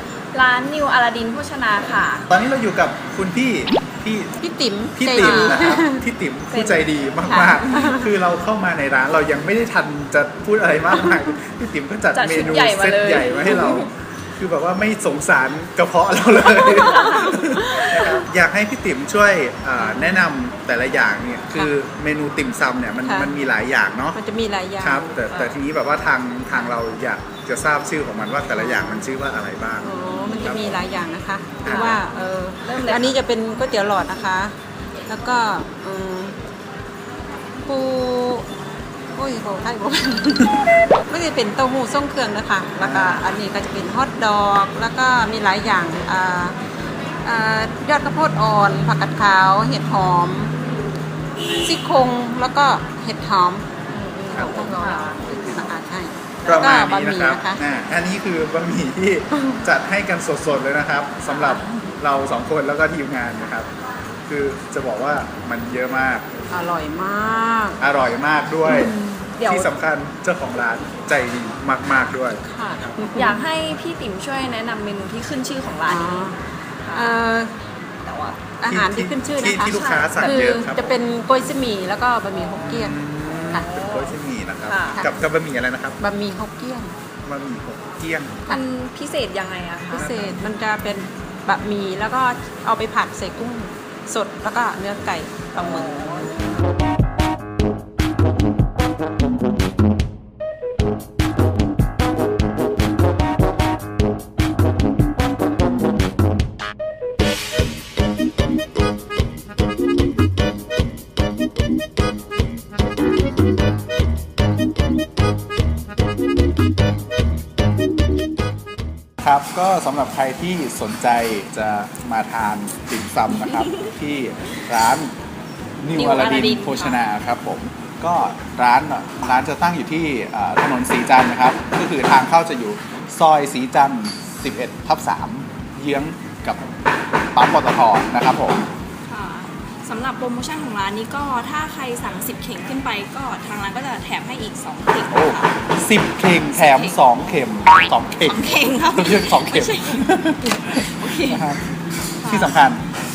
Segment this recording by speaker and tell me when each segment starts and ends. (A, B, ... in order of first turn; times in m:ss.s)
0:00.3-0:02.3 A
0:02.3-0:04.4 B
0:04.4-0:06.0 C
0:05.0-0:24.2 B
0:05.2-0:05.6 A
0:06.5-0:06.9 A
0:07.2-0:08.0 C
0:12.1-0:13.9 A
0:16.9-0:18.2 A
0:19.8-0:20.1 C
0:23.0-0:23.3 C
0:24.1-0:25.4 C
0:24.8-0:30.8 B
0:28.5-0:29.0 C
0:29.8-0:34.6 C
0:31.6-0:32.0 B
0:31.7-0:32.0 A
0:32.6-0:33.1 A
0:35.1-0:36.4 C
0:37.6-0:38.5 C
0:39.1-0:46.6 C
0:42.8-0:43.2 B
0:47.2-0:50.5 C
0:51.5-0:57.6 C
0:54.0-0:55.2 A
0:54.4-0:54.6 B
0:56.4-1:03.7 B
1:04.2-1:06.3 B
1:06.5-1:07.8 C
1:07.8-1:12.4 B
1:08.7-1:09.2 C
1:09.3-1:09.7 A
1:12.4-1:13.4 C
1:13.1-1:17.2 A
1:15.8-1:16.4 C
1:16.9-1:17.6 C
1:18.0-1:18.4 A
1:18.6-1:23.0 C
1:18.6-1:20.9 B
1:19.5-1:20.6 A
1:22.6-1:26.0 B
1:23.5-1:25.0 A
1:26.0-1:26.9 C
1:27.2-1:28.4 B
1:28.5-1:30.1 A
1:29.9-1:36.4 C
1:29.9-1:30.4 B
1:35.6-1:36.4 A
1:59.2-2:05.1 B
2:05.8-2:16.7 B
2:05.9-2:07.0 D
2:17.3-2:18.6 B
2:19.1-2:25.5 D
2:25.1-2:31.7 B
2:26.5-2:27.0 D
2:28.1-2:30.1 D
2:30.6-2:31.5 D
2:32.2-2:32.6 D
2:32.2-2:32.8 B